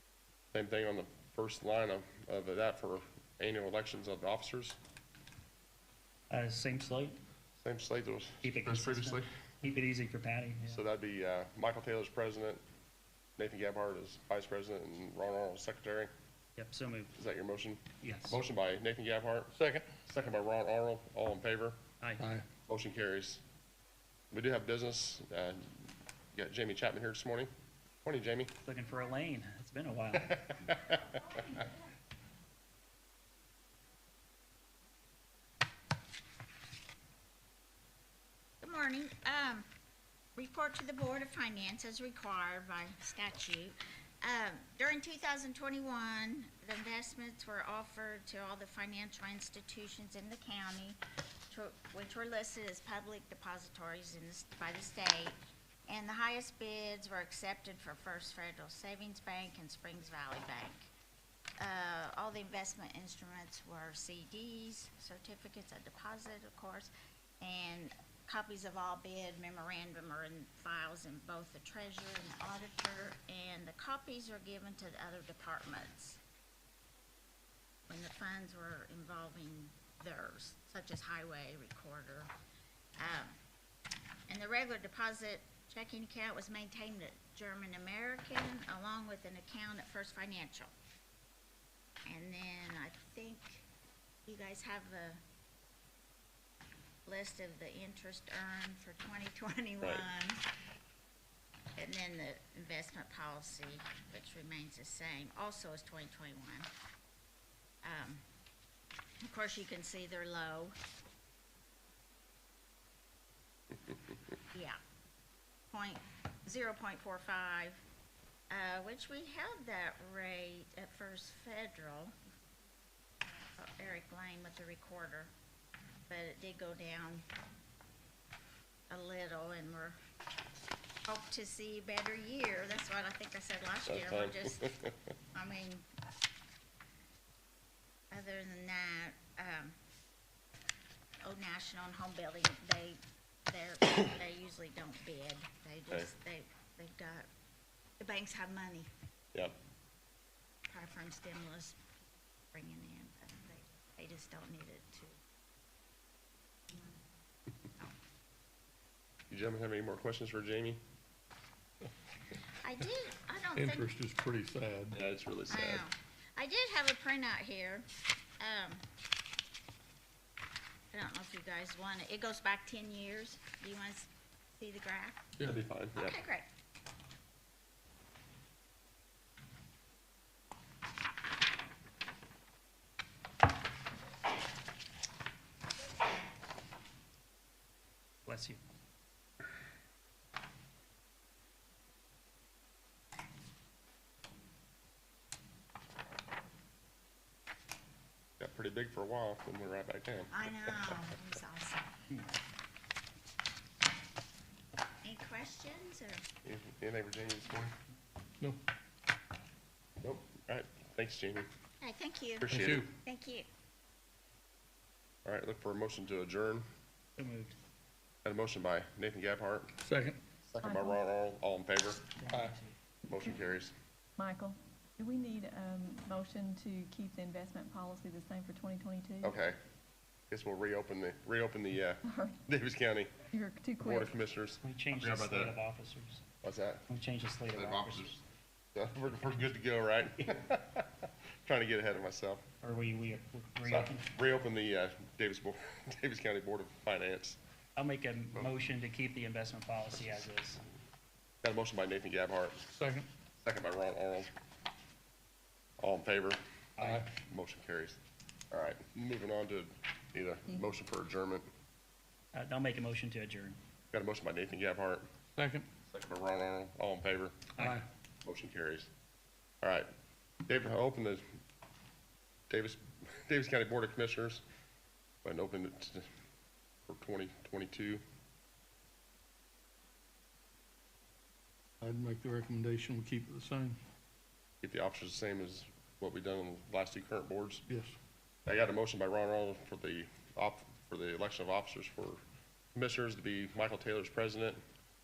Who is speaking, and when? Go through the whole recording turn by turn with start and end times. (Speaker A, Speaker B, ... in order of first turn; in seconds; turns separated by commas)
Speaker A: 0.5-4.8, Speaker B: 6.3-7.2, Speaker A: 7.6-9.3, Speaker B: 8.4-10.8, Speaker A: 10.7-12.6, Speaker A: 13.4-16.1, Speaker B: 16.6-17.1, Speaker A: 17.1-19.5, Speaker B: 18.0-18.4, Speaker C: 19.6-19.9, Speaker A: 20.1-21.8, Speaker C: 22.2-22.4, Speaker A: 22.7-23.4, Speaker A: 24.3-27.5, Speaker A: 28.1-28.5, Speaker B: 28.6-30.5, Speaker A: 30.5-31.0, Speaker D: 38.6-39.7, Speaker D: 40.4-51.0, Speaker D: 51.5-55.4, Speaker D: 55.9-60.9, Speaker D: 61.6-66.9, Speaker D: 67.4-76.2, Speaker D: 77.9-82.3, Speaker D: 83.0-83.3, Speaker D: 84.3-90.7, Speaker D: 92.1-93.7, Speaker D: 94.3-95.2, Speaker D: 97.1-100.5, Speaker A: 99.8-100.0, Speaker D: 101.8-106.7, Speaker D: 107.8-108.2, Speaker D: 109.2-110.8, Speaker D: 114.5-114.8, Speaker D: 115.7-117.8, Speaker D: 118.5-122.1, Speaker D: 123.6-125.3, Speaker D: 126.1-127.2, Speaker D: 128.9-130.0, Speaker D: 131.1-134.7, Speaker A: 133.9-134.9, Speaker D: 135.3-135.9, Speaker D: 138.1-139.8, Speaker D: 141.2-147.3, Speaker D: 148.0-148.9, Speaker D: 150.7-151.8, Speaker D: 152.5-155.2, Speaker A: 159.3-160.8, Speaker D: 162.6-163.9, Speaker C: 163.5-165.0, Speaker A: 164.9-165.8, Speaker D: 165.5-167.9, Speaker D: 168.4-168.8, Speaker D: 170.9-175.3, Speaker A: 175.4-176.2, Speaker D: 176.0-176.5, Speaker B: 188.3-188.6, Speaker A: 198.4-200.3, Speaker D: 200.3-202.0, Speaker D: 205.0-206.2, Speaker A: 206.4-207.7, Speaker A: 210.0-211.5, Speaker D: 211.8-213.5, Speaker A: 212.4-212.9, Speaker C: 212.5-212.9, Speaker A: 215.2-216.7, Speaker B: 217.2-217.6, Speaker A: 218.2-219.7, Speaker C: 219.8-220.2, Speaker A: 220.5-222.0, Speaker E: 220.6-221.0, Speaker B: 222.2-222.7, Speaker A: 223.1-223.7, Speaker E: 224.2-229.4, Speaker A: 229.2-229.6, Speaker A: 230.3-233.1, Speaker E: 232.1-232.4, Speaker E: 233.3-234.1, Speaker A: 233.8-235.6, Speaker B: 234.6-236.2, Speaker A: 236.4-236.9, Speaker B: 236.9-238.2, Speaker A: 237.5-238.2, Speaker A: 238.8-242.4, Speaker B: 242.6-244.1, Speaker A: 243.7-247.4, Speaker B: 247.8-250.6, Speaker A: 251.4-252.7, Speaker C: 252.7-253.1, Speaker A: 253.4-254.3, Speaker A: 255.8-256.4, Speaker B: 256.8-257.0, Speaker C: 256.8-257.1, Speaker A: 257.1-258.0, Speaker A: 258.5-261.5, Speaker B: 262.3-263.6, Speaker A: 263.9-265.1, Speaker C: 265.4-265.7, Speaker A: 265.9-267.4, Speaker C: 267.6-267.9, Speaker A: 268.2-268.9, Speaker A: 269.6-269.9, Speaker A: 270.5-271.2, Speaker A: 272.5-274.4, Speaker A: 275.2-276.1, Speaker A: 276.9-278.0, Speaker C: 281.8-283.8, Speaker A: 284.6-287.6, Speaker C: 287.7-287.9, Speaker A: 288.5-292.2, Speaker A: 292.7-294.6